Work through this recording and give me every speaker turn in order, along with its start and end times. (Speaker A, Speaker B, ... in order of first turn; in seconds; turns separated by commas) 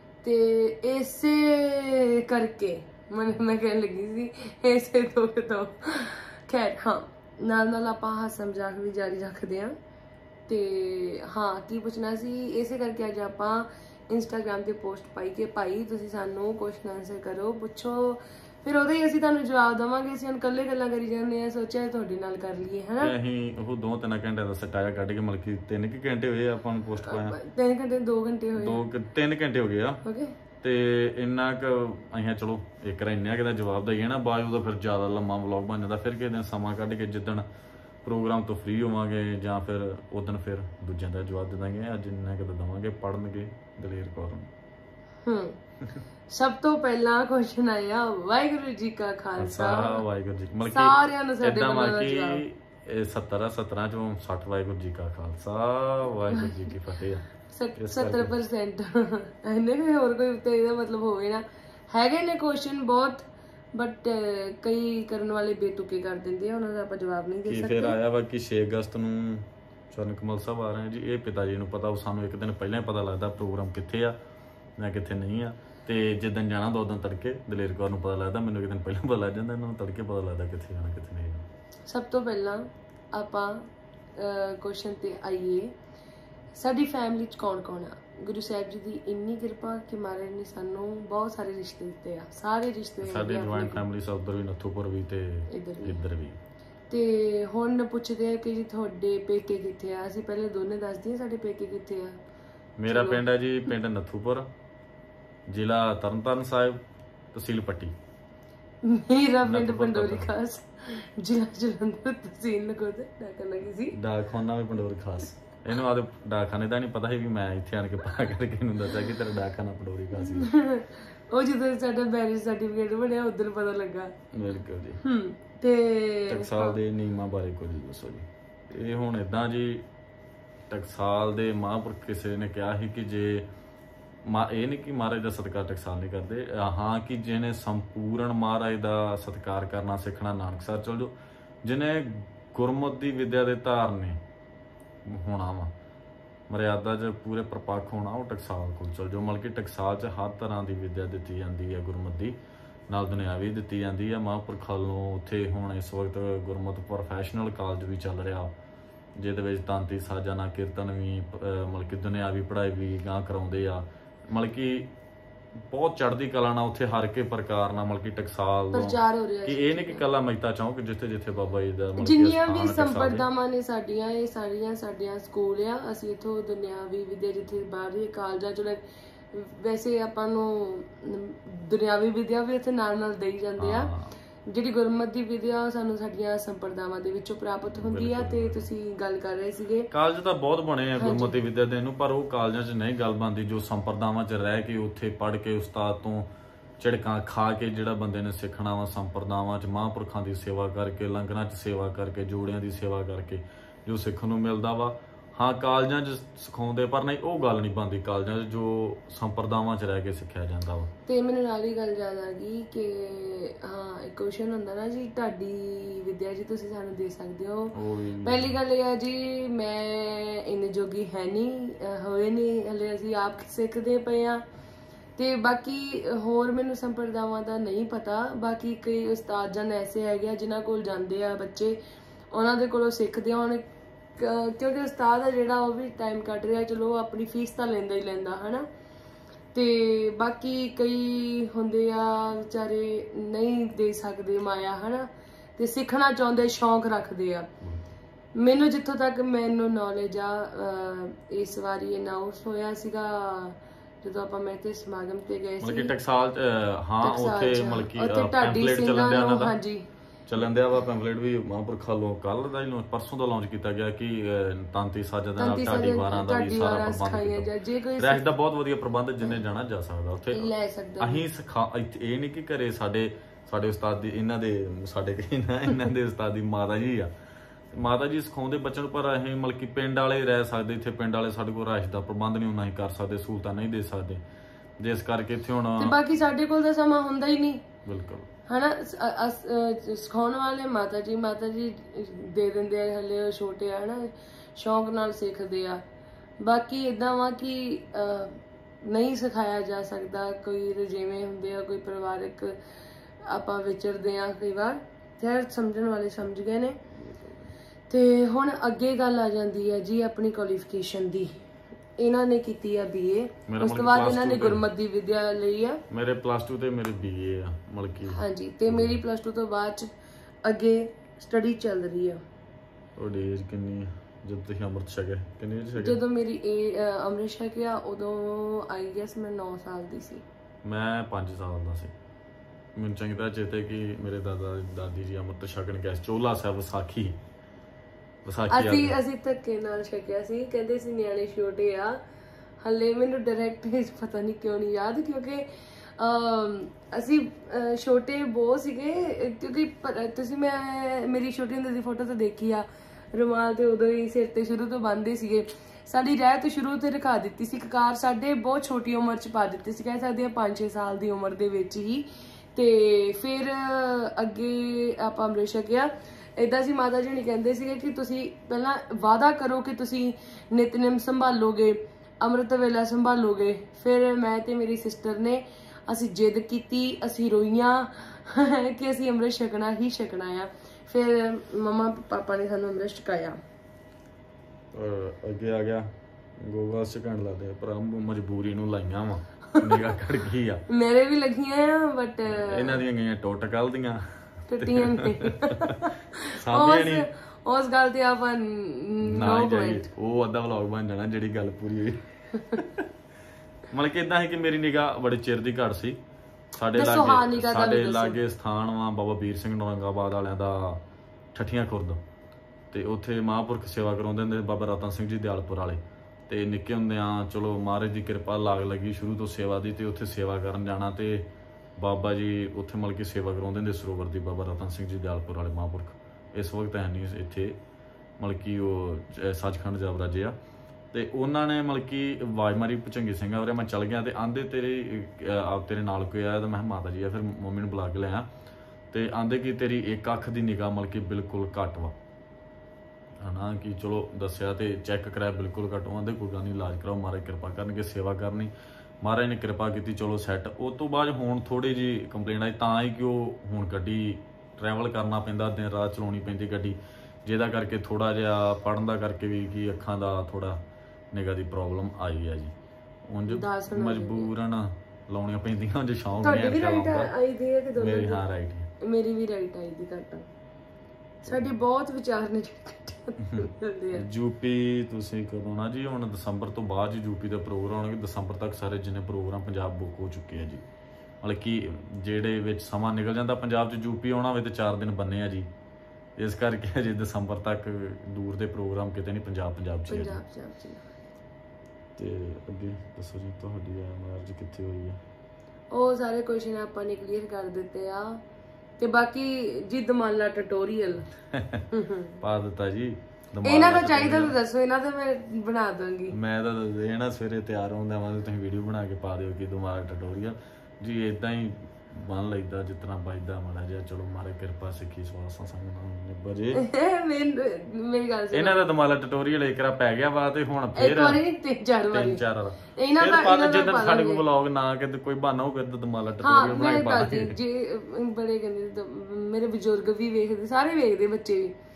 Speaker A: 0.2-9.7, Speaker A: 10.5-23.1, Speaker B: 23.0-27.4, Speaker A: 27.0-28.8, Speaker B: 28.6-30.0, Speaker A: 30.0-30.3, Speaker B: 30.6-37.5, Speaker B: 38.0-44.5, Speaker A: 45.2-45.6, Speaker A: 46.3-50.0, Speaker B: 49.4-58.3, Speaker A: 50.7-52.4, Speaker A: 56.3-56.5, Speaker A: 57.5-68.0, Speaker B: 67.5-74.2, Speaker B: 74.8-81.4, Speaker A: 81.9-83.6, Speaker A: 84.2-85.7, Speaker A: 86.5-93.8, Speaker B: 93.0-96.4, Speaker A: 95.5-96.0, Speaker A: 96.9-102.2, Speaker B: 102.8-104.5, Speaker A: 102.9-103.2, Speaker B: 105.5-106.8, Speaker B: 107.3-107.9, Speaker A: 108.8-114.0, Speaker B: 109.4-110.3, Speaker B: 113.9-120.5, Speaker A: 120.2-124.1, Speaker B: 124.3-125.0, Speaker A: 125.0-126.8, Speaker B: 126.3-129.8, Speaker B: 130.7-133.5, Speaker B: 134.2-141.1, Speaker B: 141.6-144.2, Speaker B: 145.1-145.7, Speaker B: 146.5-152.3, Speaker B: 152.9-158.5, Speaker B: 159.2-164.9, Speaker B: 165.7-173.2, Speaker A: 168.7-170.0, Speaker A: 172.0-183.9, Speaker B: 183.6-184.1, Speaker A: 184.4-189.9, Speaker B: 187.7-188.7, Speaker B: 189.9-196.3, Speaker A: 191.0-191.4, Speaker B: 196.8-210.9, Speaker A: 211.1-224.4, Speaker B: 217.7-218.6, Speaker A: 225.2-231.8, Speaker A: 232.3-233.6, Speaker A: 234.2-238.7, Speaker A: 239.5-247.5, Speaker A: 248.4-255.9, Speaker B: 255.6-259.5, Speaker A: 257.0-259.8, Speaker B: 260.2-277.1, Speaker A: 265.4-268.2, Speaker A: 270.3-271.2, Speaker B: 277.7-284.2, Speaker B: 284.8-285.9, Speaker A: 285.8-287.6, Speaker B: 287.8-288.3, Speaker A: 288.5-295.8, Speaker A: 296.4-302.6, Speaker A: 303.2-306.8, Speaker B: 307.0-307.5, Speaker A: 307.9-311.4, Speaker A: 312.0-315.8, Speaker B: 313.5-314.6, Speaker B: 315.9-319.0, Speaker A: 318.1-319.9, Speaker A: 320.4-322.2, Speaker B: 322.9-326.0, Speaker A: 325.8-330.2, Speaker B: 330.6-331.9, Speaker B: 332.8-337.2, Speaker B: 338.2-339.0, Speaker A: 338.5-342.0, Speaker A: 342.6-345.4, Speaker A: 346.0-383.4, Speaker B: 384.7-385.9, Speaker B: 386.4-390.6, Speaker A: 390.7-392.8, Speaker B: 392.3-394.0, Speaker A: 394.5-399.9, Speaker B: 394.6-395.7, Speaker B: 396.4-397.1, Speaker B: 399.0-402.9, Speaker B: 403.7-406.0, Speaker B: 406.6-410.8, Speaker A: 406.7-408.2, Speaker B: 411.3-412.0, Speaker B: 412.7-421.2, Speaker B: 421.8-427.6, Speaker B: 428.2-430.3, Speaker B: 430.9-438.3, Speaker B: 438.9-441.9, Speaker B: 443.2-448.5, Speaker B: 449.0-460.6, Speaker B: 461.1-462.5, Speaker B: 463.1-467.1, Speaker A: 463.3-464.3, Speaker A: 466.2-468.2, Speaker B: 467.8-468.7, Speaker A: 468.8-470.3, Speaker A: 471.2-474.1, Speaker B: 473.2-480.6, Speaker B: 481.2-485.5, Speaker B: 486.2-490.2, Speaker A: 489.9-490.8, Speaker B: 492.0-495.0, Speaker A: 495.7-498.2, Speaker A: 498.8-501.1, Speaker B: 501.3-501.6, Speaker A: 501.7-502.2, Speaker B: 502.2-504.3, Speaker A: 503.4-506.1, Speaker B: 506.1-516.6, Speaker A: 516.5-518.6, Speaker B: 518.3-521.2, Speaker A: 520.7-522.2, Speaker B: 521.9-527.4, Speaker A: 522.7-524.2, Speaker A: 526.2-531.5